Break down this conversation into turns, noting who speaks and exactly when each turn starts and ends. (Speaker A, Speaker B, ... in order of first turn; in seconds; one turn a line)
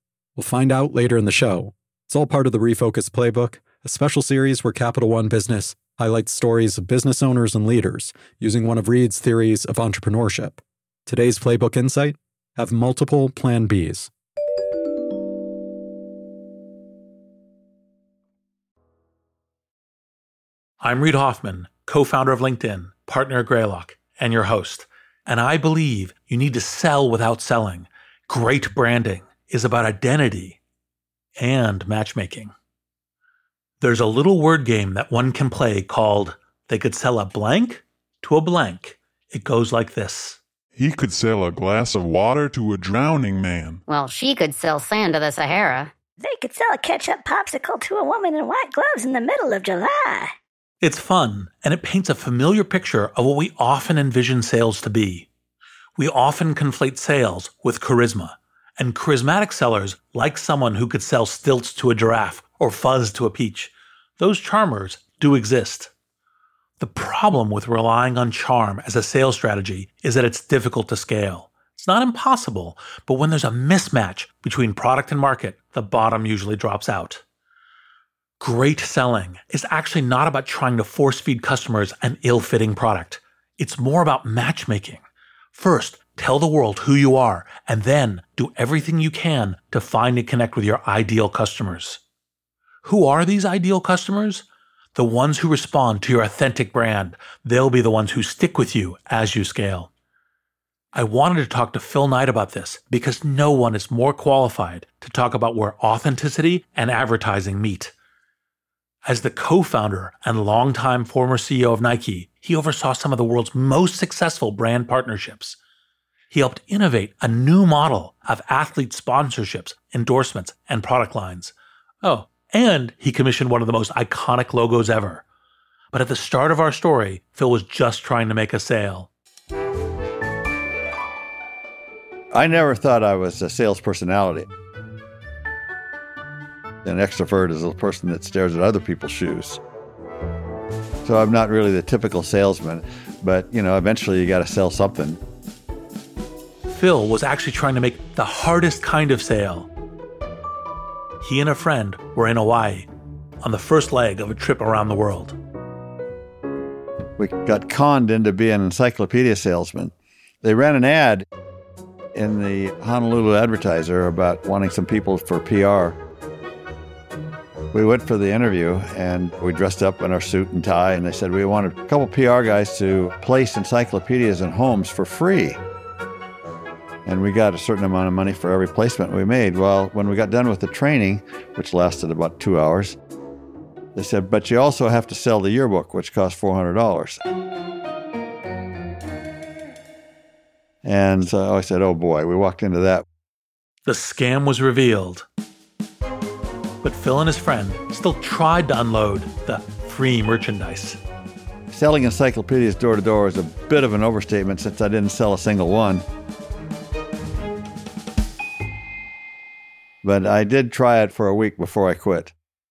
Speaker A: 0.4-14.1
Speaker B: 20.8-30.6
Speaker B: 31.4-32.5
Speaker B: 33.8-40.4
Speaker C: 40.8-43.8
Speaker D: 43.9-45.9
Speaker E: 46.2-50.3
Speaker B: 50.8-55.3
Speaker B: 56.0-65.9
Speaker B: 66.8-77.2
Speaker B: 78.4-85.0
Speaker B: 85.5-92.0
Speaker B: 92.8-99.9
Speaker B: 100.9-107.9
Speaker B: 109.0-115.6
Speaker B: 116.3-125.2
Speaker B: 125.9-129.1
Speaker F: 132.3-134.5
Speaker F: 136.8-139.6
Speaker F: 141.0-145.2
Speaker B: 146.7-149.7
Speaker B: 151.2-152.9
Speaker B: 153.4-155.4
Speaker F: 157.2-161.3
Speaker F: 162.1-166.0
Speaker F: 167.7-175.6
Speaker F: 177.1-183.0
Speaker F: 183.9-187.2
Speaker F: 190.8-193.1
Speaker B: 193.9-195.3
Speaker B: 196.8-201.0
Speaker F: 201.7-206.1
Speaker F: 210.0-212.3